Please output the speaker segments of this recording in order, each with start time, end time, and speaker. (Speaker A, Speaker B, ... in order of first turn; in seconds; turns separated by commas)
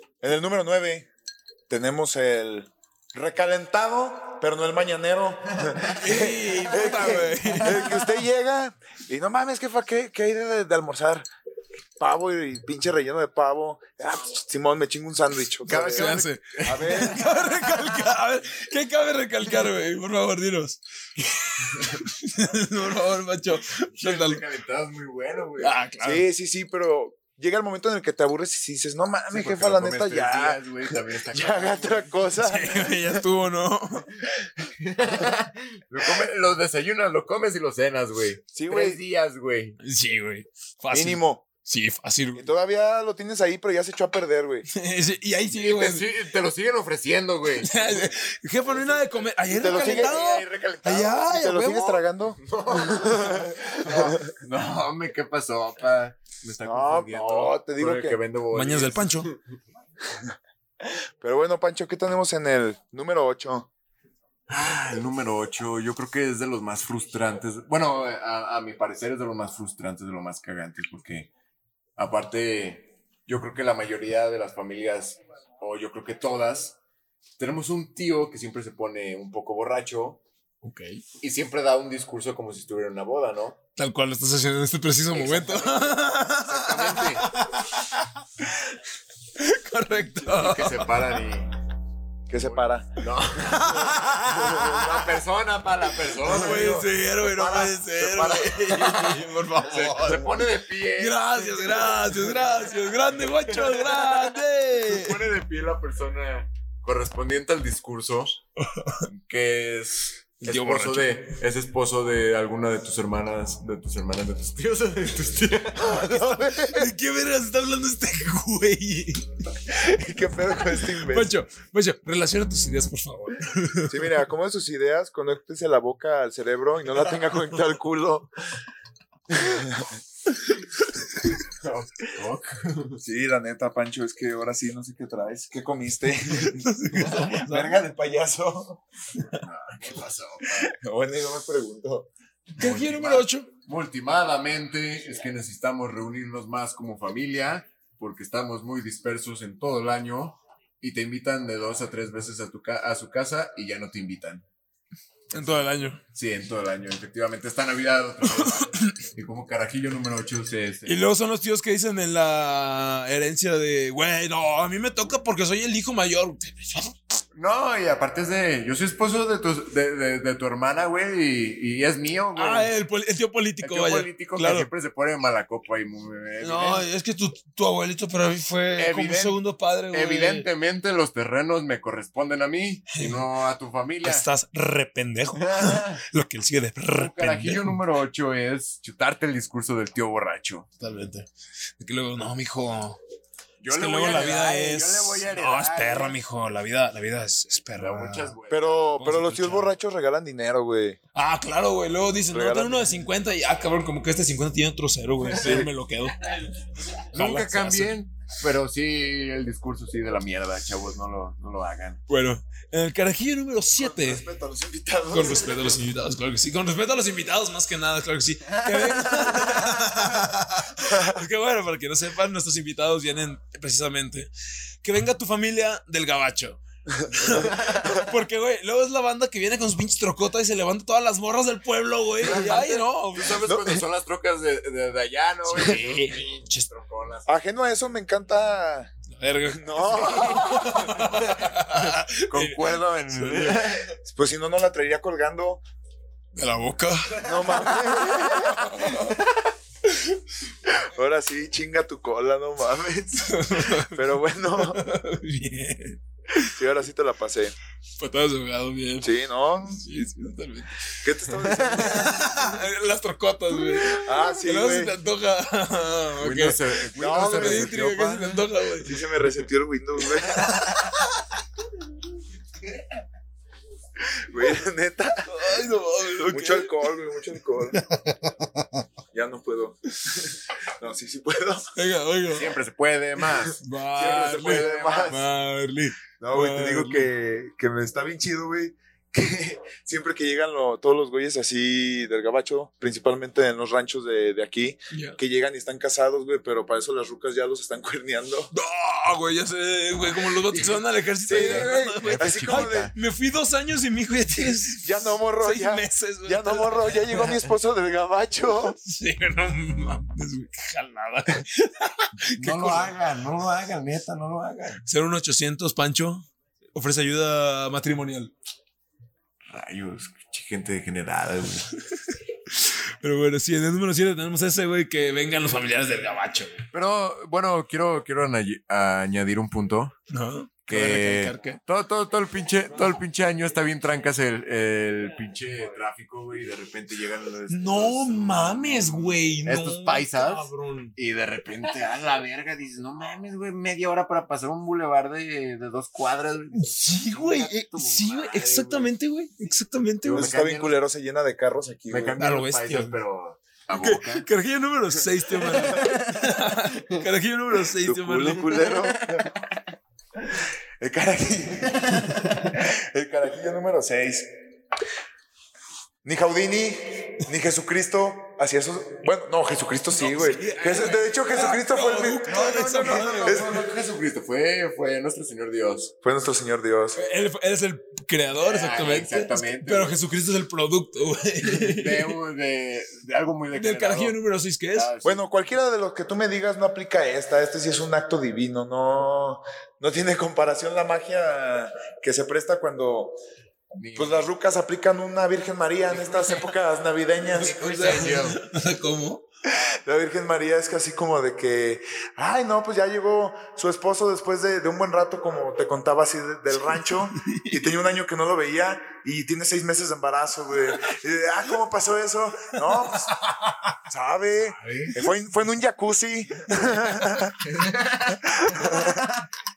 Speaker A: 0.2-1.1, Speaker A: 1.7-11.2, Speaker B: 5.9-8.1, Speaker A: 12.0-17.2, Speaker C: 15.6-17.0, Speaker B: 15.7-20.8, Speaker B: 21.9-24.4, Speaker C: 23.9-25.7, Speaker B: 25.6-26.2, Speaker A: 26.0-30.6, Speaker C: 29.3-32.2, Speaker A: 31.3-33.2, Speaker B: 32.4-34.1, Speaker C: 34.8-39.8, Speaker A: 38.5-39.0, Speaker B: 39.8-42.5, Speaker A: 40.9-41.4, Speaker A: 42.4-44.7, Speaker B: 44.7-46.1, Speaker C: 45.5-48.1, Speaker B: 47.5-52.0, Speaker C: 48.7-49.0, Speaker A: 49.5-50.1, Speaker C: 49.6-51.2, Speaker A: 51.1-54.1, Speaker C: 52.4-59.4, Speaker A: 56.6-58.2, Speaker B: 58.5-59.3, Speaker A: 60.8-63.7, Speaker C: 64.5-71.3, Speaker C: 72.0-76.8, Speaker C: 77.4-80.2, Speaker B: 80.6-81.0, Speaker C: 81.2-83.6, Speaker B: 83.8-88.0, Speaker C: 85.1-87.3, Speaker B: 89.3-91.0, Speaker C: 90.2-91.5, Speaker A: 92.3-92.9, Speaker C: 92.3-102.4, Speaker B: 93.4-94.9, Speaker A: 94.3-94.8, Speaker B: 96.0-105.3, Speaker C: 103.5-108.4, Speaker B: 108.6-109.1, Speaker C: 109.1-116.3, Speaker B: 110.4-111.2, Speaker A: 115.8-116.9, Speaker B: 116.5-119.2, Speaker A: 119.7-121.3, Speaker B: 120.8-124.2, Speaker A: 123.9-128.3, Speaker A: 129.3-129.9, Speaker C: 131.5-133.0, Speaker A: 133.0-138.8, Speaker B: 136.3-137.8, Speaker C: 139.4-140.7, Speaker A: 140.5-142.1, Speaker B: 142.6-143.5, Speaker C: 142.6-154.4, Speaker B: 155.3-156.0, Speaker C: 155.3-161.0, Speaker B: 158.3-158.9, Speaker B: 160.8-167.0, Speaker C: 167.3-172.7, Speaker B: 172.3-174.7, Speaker C: 173.6-176.8, Speaker B: 176.4-180.5, Speaker C: 178.8-184.2, Speaker B: 182.9-183.2, Speaker B: 184.0-187.8, Speaker C: 185.3-186.0, Speaker C: 186.9-190.7, Speaker B: 190.8-191.3, Speaker B: 191.8-193.0, Speaker C: 193.6-196.2, Speaker B: 193.7-198.3, Speaker C: 197.7-199.6, Speaker A: 198.5-201.0, Speaker B: 199.0-199.7, Speaker B: 201.1-206.5, Speaker A: 202.3-202.9, Speaker C: 205.3-205.6, Speaker B: 207.1-208.0, Speaker C: 207.1-212.0, Speaker B: 212.1-214.2, Speaker A: 213.8-215.7, Speaker B: 215.1-224.3, Speaker A: 220.9-221.2, Speaker B: 224.8-233.4, Speaker A: 232.3-232.8, Speaker C: 232.3-237.3, Speaker A: 233.4-233.8, Speaker B: 235.5-236.7, Speaker A: 237.2-238.9, Speaker B: 239.2-243.8, Speaker A: 239.6-240.9, Speaker C: 241.0-243.9, Speaker A: 244.0-245.6, Speaker B: 246.3-249.2, Speaker A: 247.2-248.9, Speaker A: 250.7-254.8, Speaker B: 253.2-254.0, Speaker B: 254.5-256.4, Speaker A: 256.4-257.5, Speaker B: 258.0-259.1, Speaker A: 259.0-259.8, Speaker B: 259.7-269.1, Speaker A: 261.0-262.3, Speaker A: 263.8-264.9, Speaker C: 266.2-268.3, Speaker A: 267.0-267.9, Speaker A: 268.8-270.5, Speaker B: 270.2-271.1, Speaker A: 274.1-275.5, Speaker B: 275.3-276.9, Speaker A: 276.3-277.8, Speaker B: 277.7-278.7, Speaker A: 279.1-279.8, Speaker A: 280.8-281.7, Speaker B: 281.7-282.5, Speaker C: 282.3-285.2, Speaker B: 283.5-287.1, Speaker A: 283.9-285.2, Speaker A: 286.2-298.5, Speaker B: 294.9-295.2, Speaker B: 298.5-307.4, Speaker C: 300.5-302.9, Speaker A: 301.2-302.9, Speaker A: 304.8-308.8, Speaker B: 308.8-312.9, Speaker C: 312.3-314.8, Speaker B: 314.9-318.3, Speaker C: 319.5-321.7, Speaker B: 322.0-326.6, Speaker C: 326.7-329.9, Speaker B: 330.1-331.6, Speaker C: 330.7-348.9, Speaker B: 337.5-340.9, Speaker B: 346.5-350.3, Speaker C: 350.0-350.8, Speaker A: 350.1-352.2, Speaker C: 351.9-354.3, Speaker B: 352.2-353.0, Speaker B: 353.7-358.8, Speaker C: 355.6-356.0, Speaker A: 357.8-359.3, Speaker C: 358.7-359.2, Speaker A: 360.8-364.3, Speaker A: 366.0-373.6, Speaker B: 370.0-373.6, Speaker C: 372.2-375.9, Speaker A: 376.0-377.0, Speaker B: 376.9-382.2, Speaker C: 378.4-380.0, Speaker C: 381.4-384.2, Speaker B: 383.5-384.9, Speaker C: 384.7-385.2, Speaker A: 385.0-393.2, Speaker C: 393.7-394.3, Speaker A: 393.9-397.8, Speaker C: 395.9-396.5, Speaker C: 397.3-398.4, Speaker B: 397.4-399.2, Speaker A: 399.9-413.1, Speaker B: 406.7-407.6, Speaker B: 412.8-413.4, Speaker A: 413.9-417.3, Speaker C: 414.5-414.9, Speaker C: 417.4-419.0, Speaker A: 418.2-419.1